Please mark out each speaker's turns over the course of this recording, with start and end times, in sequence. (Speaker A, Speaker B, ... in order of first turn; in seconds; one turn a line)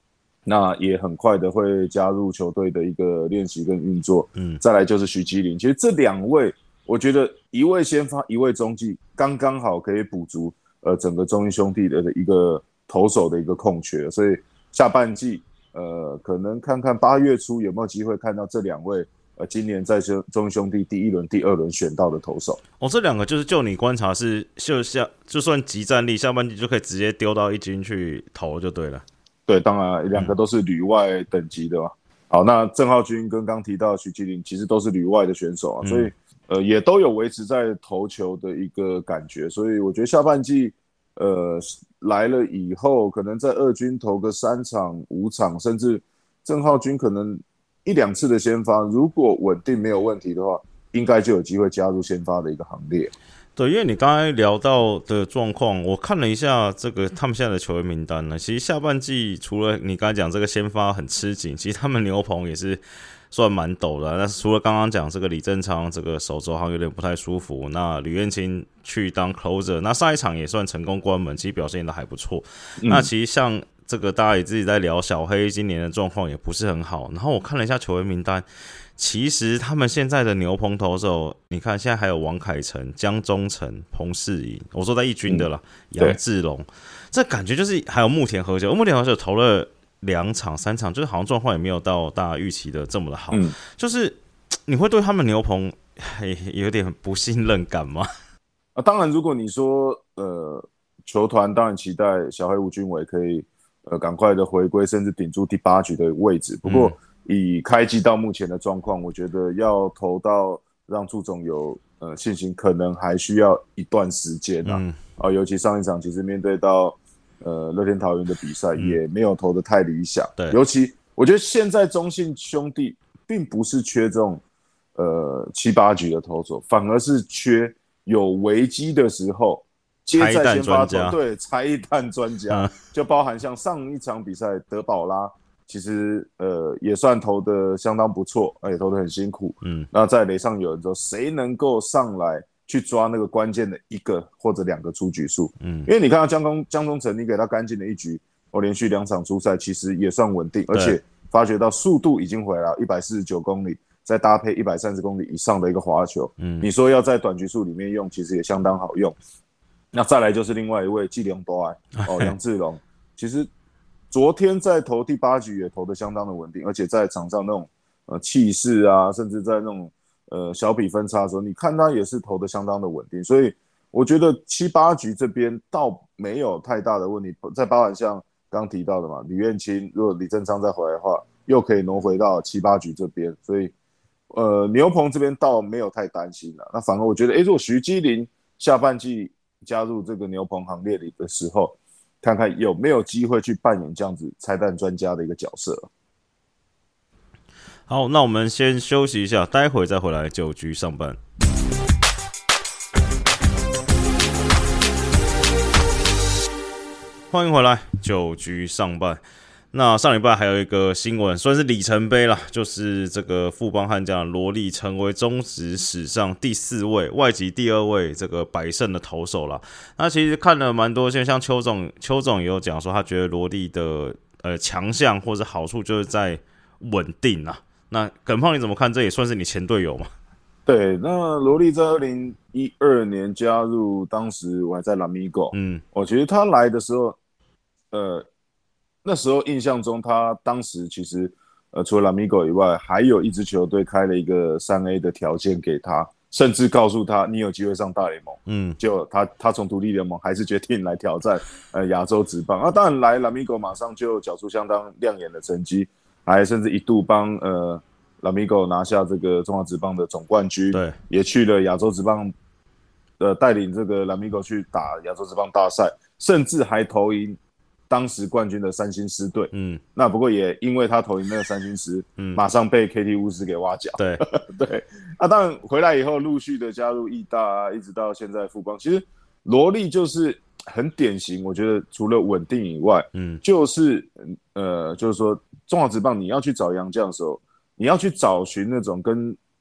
Speaker A: 0.5-22.6
Speaker B: 4.3-4.6
Speaker B: 22.8-29.0
Speaker A: 29.5-53.1
Speaker B: 35.8-36.1
Speaker B: 53.5-78.4
Speaker A: 72.8-73.1
Speaker B: 79.0-98.1
Speaker A: 98.8-124.4
Speaker B: 106.6-107.0
Speaker B: 114.6-115.0
Speaker A: 125.0-159.2
Speaker B: 130.1-131.2
Speaker B: 145.6-145.9
Speaker B: 150.7-151.0
Speaker B: 156.4-156.7
Speaker A: 159.9-163.5
Speaker B: 162.0-162.3
Speaker A: 164.1-183.7
Speaker A: 184.3-195.9
Speaker B: 197.9-201.2
Speaker B: 207.3-209.2
Speaker B: 209.7-230.1
Speaker A: 230.7-237.2
Speaker B: 235.5-235.8
Speaker A: 237.9-238.2
Speaker A: 239.0-262.3
Speaker B: 248.5-248.8
Speaker B: 260.7-261.0
Speaker A: 263.2-267.4
Speaker A: 267.9-289.4
Speaker B: 269.5-269.8
Speaker B: 274.0-274.2
Speaker B: 283.1-283.4